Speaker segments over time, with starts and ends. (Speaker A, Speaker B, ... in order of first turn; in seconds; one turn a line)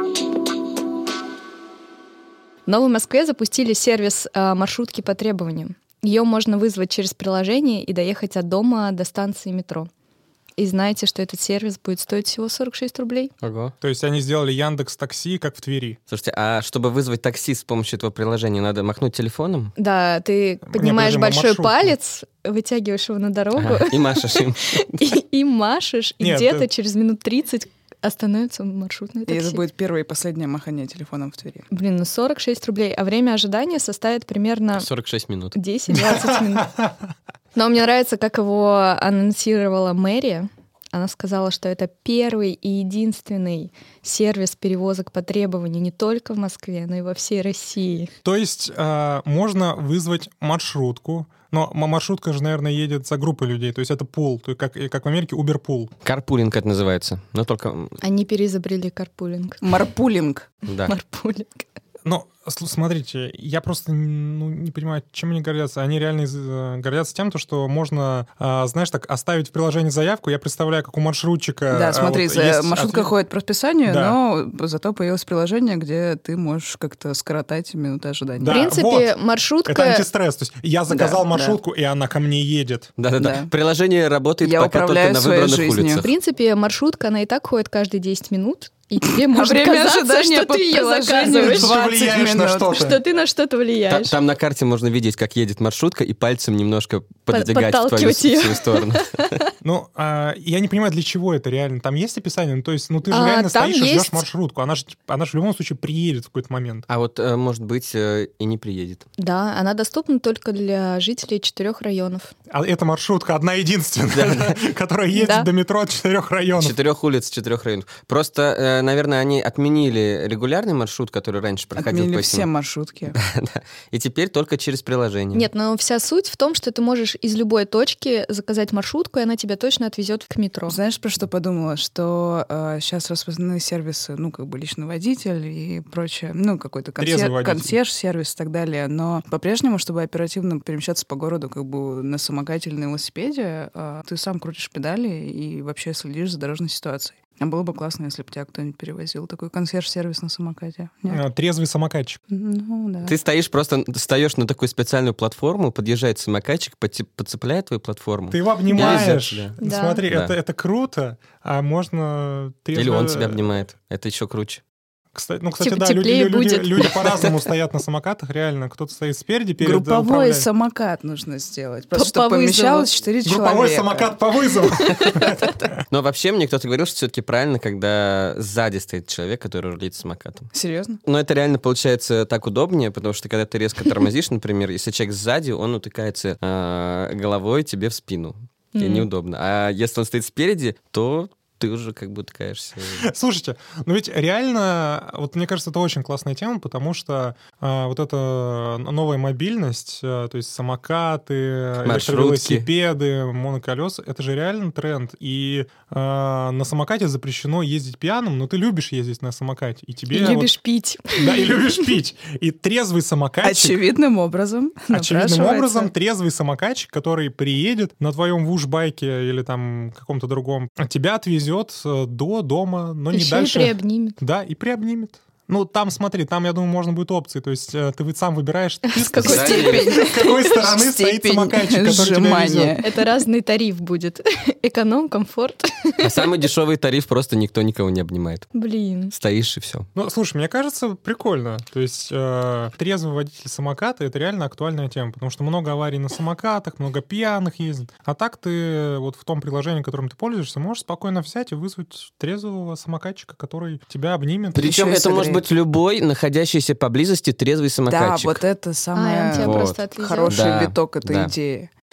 Speaker A: 2.7-9.9
Speaker A: 10.6-13.3
Speaker B: 13.4-13.7
Speaker C: 13.8-16.0
Speaker B: 16.1-19.7
Speaker A: 19.8-29.6
Speaker C: 20.7-21.9
Speaker B: 23.6-25.0
Speaker C: 26.2-26.7
Speaker D: 29.3-31.7
Speaker A: 31.7-34.9
Speaker B: 34.8-35.6
Speaker A: 35.5-36.7
Speaker C: 35.9-36.9
Speaker A: 37.5-48.1
Speaker C: 48.2-55.9
Speaker B: 56.0-58.0
Speaker A: 58.0-59.6
Speaker D: 59.6-60.5
Speaker B: 60.7-61.0
Speaker A: 60.9-61.7
Speaker C: 62.0-73.1
Speaker D: 71.7-78.7
Speaker C: 73.9-74.2
Speaker C: 78.4-79.1
Speaker A: 78.5-80.0
Speaker C: 79.7-82.9
Speaker D: 80.9-81.6
Speaker B: 83.0-86.1
Speaker D: 83.2-83.5
Speaker D: 84.4-86.1
Speaker A: 86.0-91.8
Speaker D: 89.1-92.9
Speaker C: 91.2-93.0
Speaker A: 92.7-94.2
Speaker B: 93.9-99.4
Speaker A: 97.3-99.3
Speaker C: 99.6-106.9
Speaker A: 103.1-104.2
Speaker B: 106.9-109.1
Speaker A: 109.2-112.3
Speaker C: 112.5-116.8
Speaker B: 114.1-114.6
Speaker A: 115.1-115.5
Speaker B: 116.6-122.5
Speaker D: 121.8-123.2
Speaker B: 123.1-125.5
Speaker A: 125.3-130.8
Speaker D: 130.7-151.2
Speaker C: 137.0-137.7
Speaker C: 151.1-152.2
Speaker D: 152.3-153.2
Speaker B: 153.1-159.6
Speaker C: 158.3-163.5
Speaker A: 158.7-160.1
Speaker B: 160.1-160.3
Speaker B: 162.8-164.6
Speaker C: 165.1-170.5
Speaker A: 165.6-167.0
Speaker D: 169.6-174.1
Speaker A: 171.9-172.9
Speaker C: 173.2-175.7
Speaker A: 174.8-175.4
Speaker B: 175.9-180.5
Speaker D: 180.5-181.0
Speaker B: 181.1-193.0
Speaker A: 188.7-189.1
Speaker C: 192.9-210.5
Speaker B: 201.8-202.7
Speaker A: 210.1-211.7
Speaker C: 211.2-213.8
Speaker D: 213.4-215.9
Speaker C: 214.9-232.8
Speaker A: 223.1-224.2
Speaker A: 228.9-230.4
Speaker B: 229.2-229.9
Speaker D: 229.2-232.9
Speaker A: 232.8-236.3
Speaker B: 236.0-238.5
Speaker A: 238.5-239.1
Speaker B: 239.1-239.9
Speaker C: 239.9-254.7
Speaker B: 254.6-258.4
Speaker D: 254.6-255.4
Speaker D: 257.9-261.7
Speaker A: 258.9-260.5
Speaker B: 259.3-261.3